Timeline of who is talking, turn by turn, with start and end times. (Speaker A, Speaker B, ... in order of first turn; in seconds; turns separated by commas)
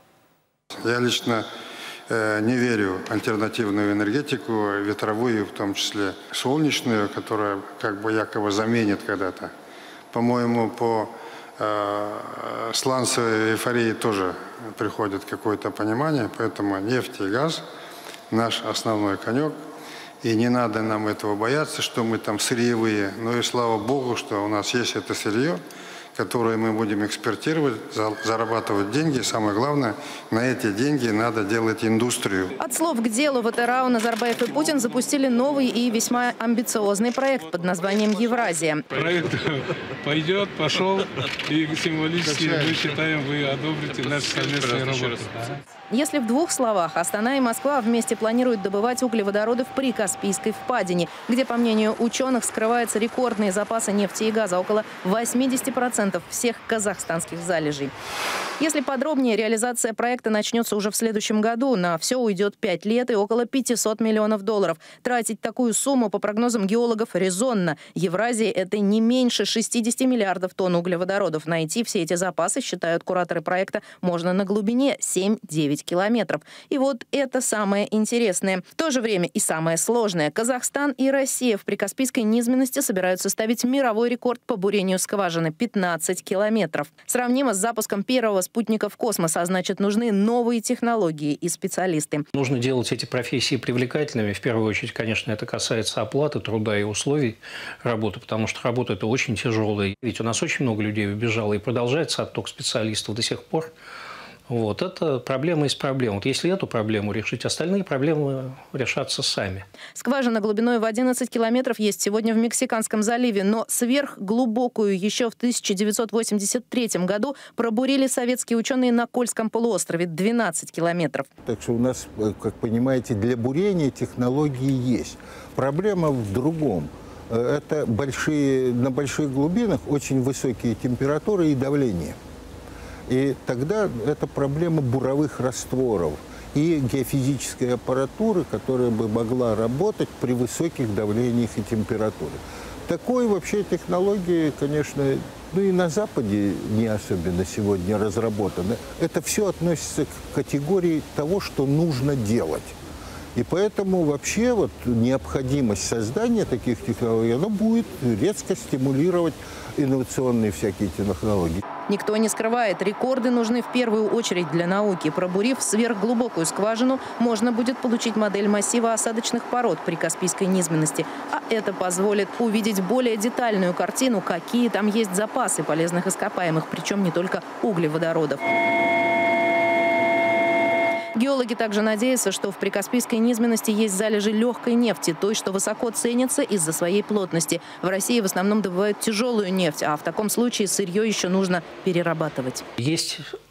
Speaker A: 0.8-1.5, Speaker A: 2.1-9.5, Speaker A: 10.1-17.6, Speaker A: 18.3-19.6, Speaker A: 20.2-25.6, Speaker A: 26.1-32.5, Speaker B: 32.6-38.9, Speaker C: 38.9-45.6, Speaker B: 45.9-57.9, Speaker B: 58.6-92.3, Speaker D: 92.3-103.7, Speaker D: 104.5-109.7, Speaker B: 110.0-121.3, Speaker E: 121.5-132.2, Speaker E: 133.1-152.7, Speaker E: 153.3-161.6, Speaker B: 161.9-178.4, Speaker B: 181.2-192.7, Speaker D: 192.8-193.2